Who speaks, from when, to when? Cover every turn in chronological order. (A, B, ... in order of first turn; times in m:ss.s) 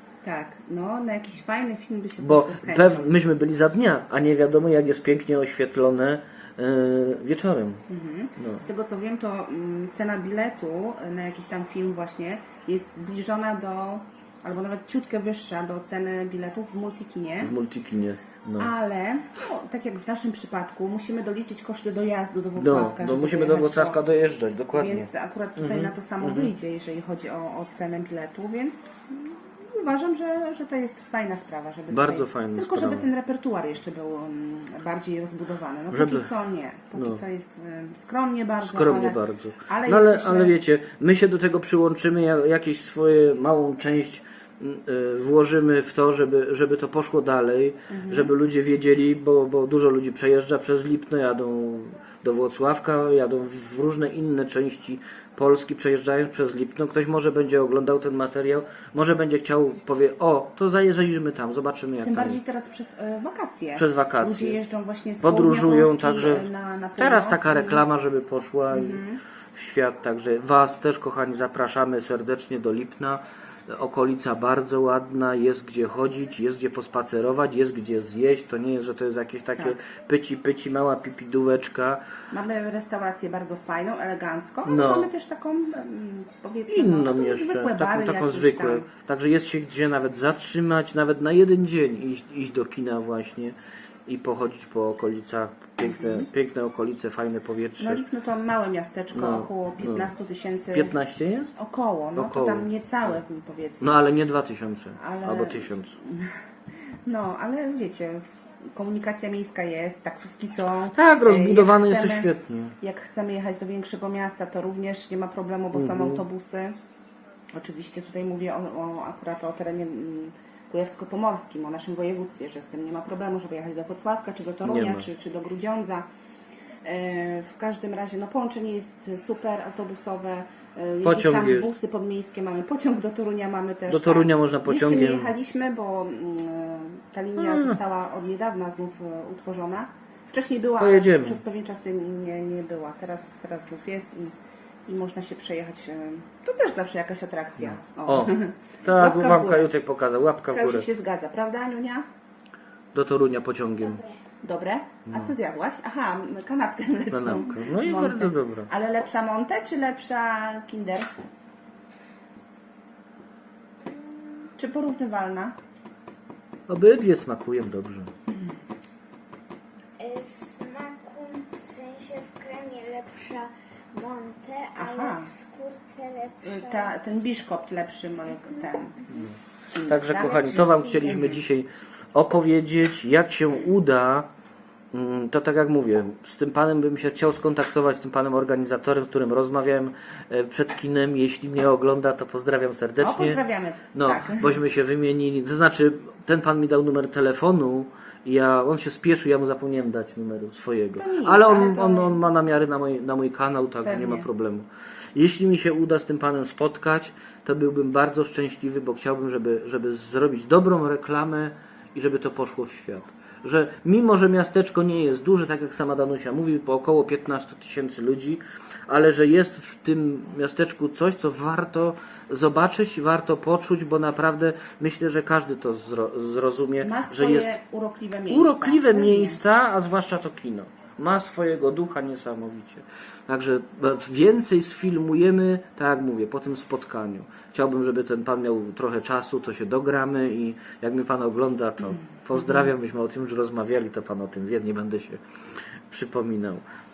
0:00.2-0:03.1 A
0:02.2-0:07.8 B
0:07.9-0:17.5 A
0:08.4-0:08.6 B
0:17.4-0:18.7 B
0:18.6-0:24.0 A
0:22.6-0:26.5 B
0:24.7-0:40.5 A
0:31.9-0:33.1 B
0:35.9-0:36.3 B
0:36.9-0:37.2 B
0:38.6-1:02.4 B
0:47.9-0:48.3 A
1:02.0-1:07.8 A
1:03.8-1:04.6 B
1:05.2-1:06.5 B
1:07.0-1:09.0 B
1:08.7-1:09.2 A
1:09.5-1:22.0 B
1:22.3-1:28.9 A
1:24.6-1:25.1 B
1:26.7-1:38.0 B
1:35.8-1:36.3 A
1:37.8-1:40.9 A
1:39.1-1:40.1 B
1:40.7-1:41.5 B
1:41.5-1:43.9 A
1:42.2-1:42.7 B
1:43.8-1:45.9 B
1:45.0-1:46.4 A
1:47.0-1:56.8 A
1:50.9-1:52.8 B
1:55.7-1:56.2 B
1:57.5-2:06.0 A
2:04.6-2:05.1 B
2:06.8-2:29.7 A
2:11.0-2:11.7 B
2:13.9-2:15.3 B
2:17.4-2:17.8 B
2:20.8-2:21.4 B
2:27.6-2:30.9 B
2:30.5-2:32.1 A
2:32.9-2:34.0 B
2:34.4-2:41.1 A
2:35.1-2:35.3 B
2:37.1-2:38.7 B
2:43.8-2:44.5 C
2:44.6-2:45.6 A
2:46.7-2:48.1 B
2:50.0-2:56.9 C
2:54.8-2:55.3 A
2:56.4-2:59.0 A
2:58.5-2:59.2 C
2:59.1-3:04.3 B
2:59.7-3:01.4 A
3:00.6-3:01.2 C
3:04.9-3:13.4 B
3:13.0-3:14.6 A
3:13.9-3:47.6 B
3:21.0-3:22.2 A
3:23.8-3:24.3 A
3:46.8-3:49.4 A
3:48.3-4:05.2 B
4:05.9-4:06.6 B